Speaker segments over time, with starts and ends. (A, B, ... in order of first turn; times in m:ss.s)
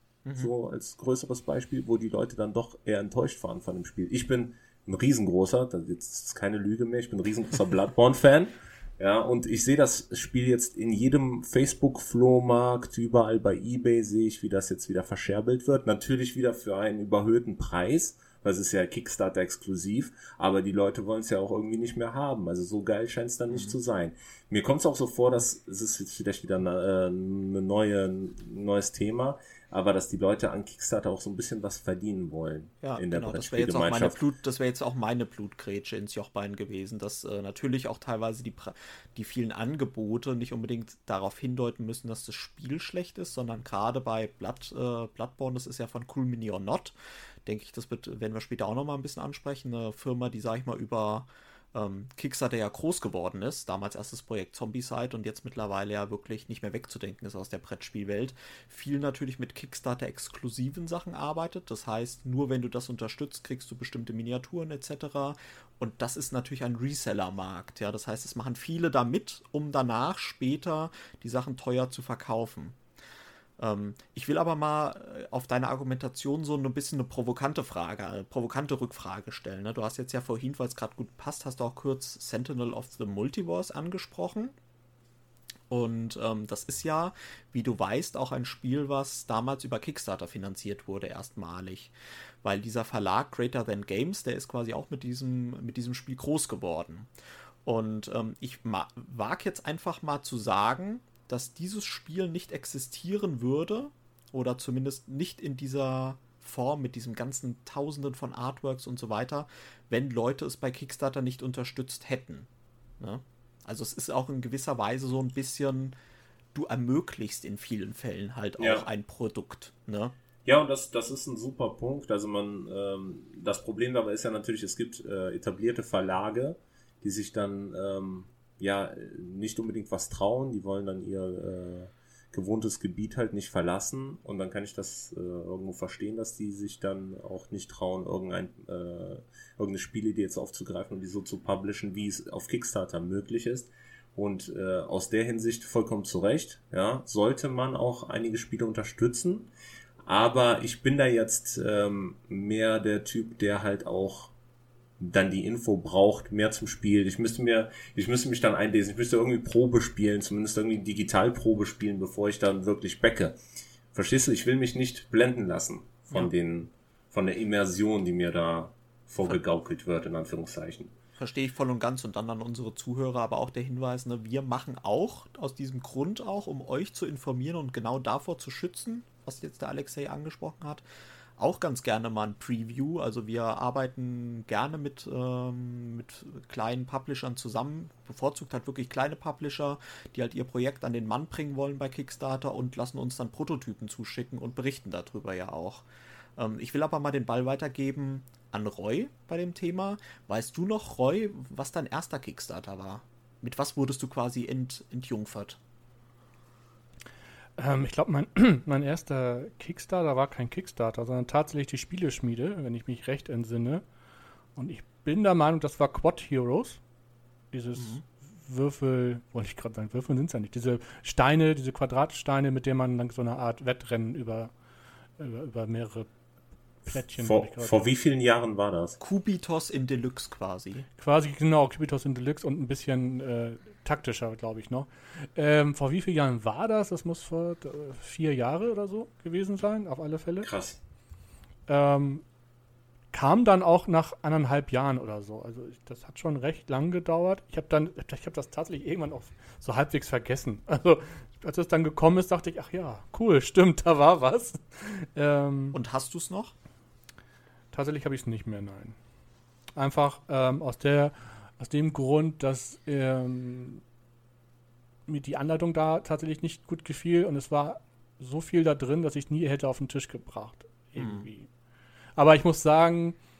0:00.2-0:00.5 A
0:00.4-0:34.2 B
0:23.5-0:23.8 A
0:32.8-1:12.8 A
1:13.6-1:24.5 A
1:25.7-1:37.1 A
1:37.6-1:56.0 A
1:56.5-2:00.1 A
1:58.6-1:58.9 B
2:00.4-2:29.5 B
2:30.0-2:34.3 B
2:35.0-2:43.4 B
2:43.9-2:50.9 B
2:51.2-3:00.8 A
3:01.4-3:25.6 A
3:27.6-3:33.8 C
3:34.6-3:36.8 C
3:37.5-3:44.5 C
3:37.8-3:38.0 A
3:45.2-3:46.1 C
3:46.8-3:47.8 C
3:47.2-3:49.0 B
3:49.0-3:50.9 A
3:51.0-4:00.5 C
4:00.4-4:00.8 B
4:01.7-4:02.2 C
4:03.1-4:15.8 C
4:15.7-4:16.5 A
4:17.7-4:19.0 C
4:19.7-4:23.8 C
4:25.1-4:31.5 C
4:31.0-4:31.3 A
4:32.2-4:33.2 C